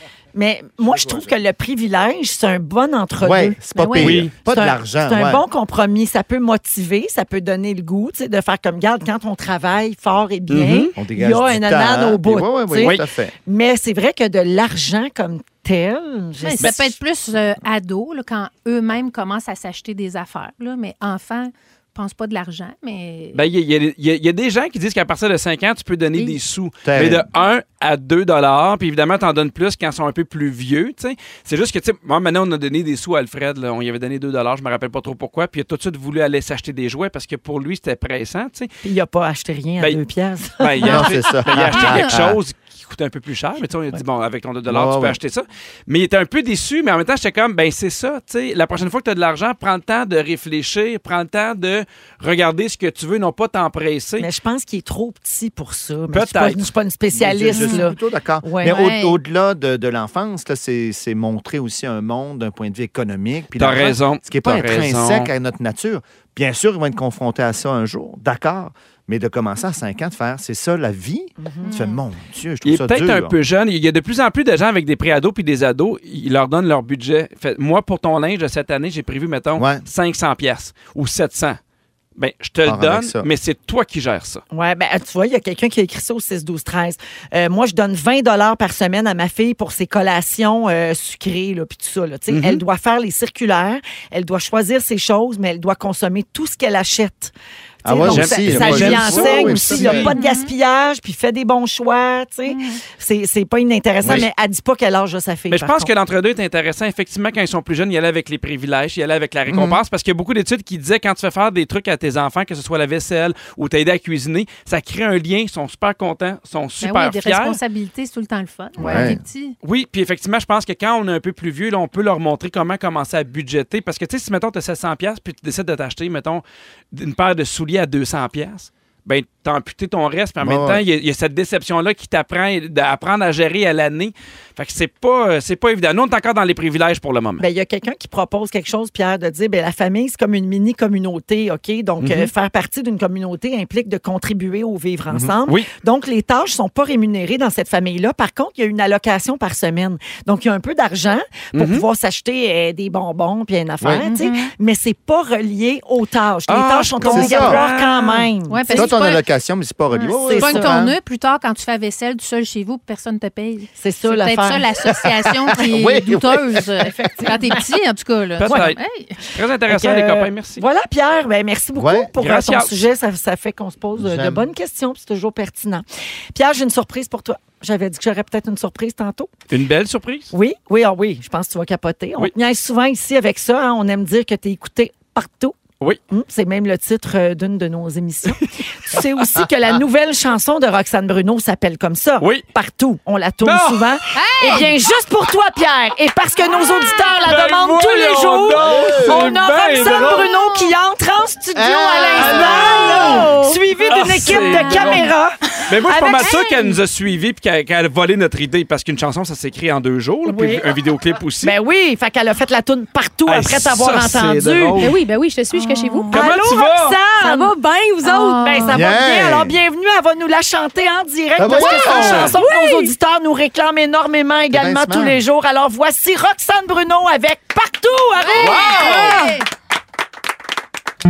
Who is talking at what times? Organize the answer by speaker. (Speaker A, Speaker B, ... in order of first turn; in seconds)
Speaker A: 0.3-3.6, 4.5-17.0, 38.8-41.3, 54.2-58.9, 84.5-97.3, 97.8-105.9, 137.4-158.9, 160.2-160.7, 163.8-165.3, 166.9-167.6, 168.4-168.7, 169.2-179.3, 180.3-185.6, 186.1-206.3, 210.2-210.8, 211.4-214.9, 216.1-229.2
Speaker B: 0.8-1.3, 3.2-5.5, 11.0-13.3, 26.8-27.2, 40.8-42.4, 44.7-45.2, 57.1-73.3, 79.5-79.8, 82.6-83.3, 97.8-100.1, 104.0-104.3, 109.5-109.8, 118.8-119.2, 130.4-130.8, 153.8-154.1, 157.0-157.6, 158.7-161.0, 165.5-167.0, 171.8-172.1, 174.0-174.5, 198.6-199.2, 201.5-203.2, 218.7-219.6, 221.4-222.4, 224.5-225.2, 228.4-229.2
Speaker C: 3.8-4.2, 16.4-23.4, 57.5-57.8, 58.6-59.2, 71.6-72.0, 100.0-100.5, 102.5-102.8, 116.8-119.5, 154.0-154.5, 158.5-159.2, 159.9-169.1, 194.1-194.7, 204.3-205.1, 206.2-206.7, 215.5-216.1, 218.0-218.8, 228.6-229.3
Speaker D: 4.0-4.3, 10.5-10.9, 23.3-38.7, 40.6-54.3, 56.1-56.7, 63.5-65.3, 72.6-81.6, 82.2-84.4, 92.3-92.6, 98.0-100.0, 105.5-117.6, 118.8-119.1, 119.6-137.4, 142.0-142.3, 151.5-151.8, 156.5-158.3, 168.4-168.8, 169.3-170.6, 172.2-172.8, 179.5-180.3, 192.2-192.4, 193.4-193.9, 197.0-200.3, 202.1-205.0, 205.7-211.5, 213.2-214.9, 216.1-217.0, 221.9-222.3
Speaker E: 203.2-203.6, 214.8-218.7, 221.5-222.9, 228.4-229.4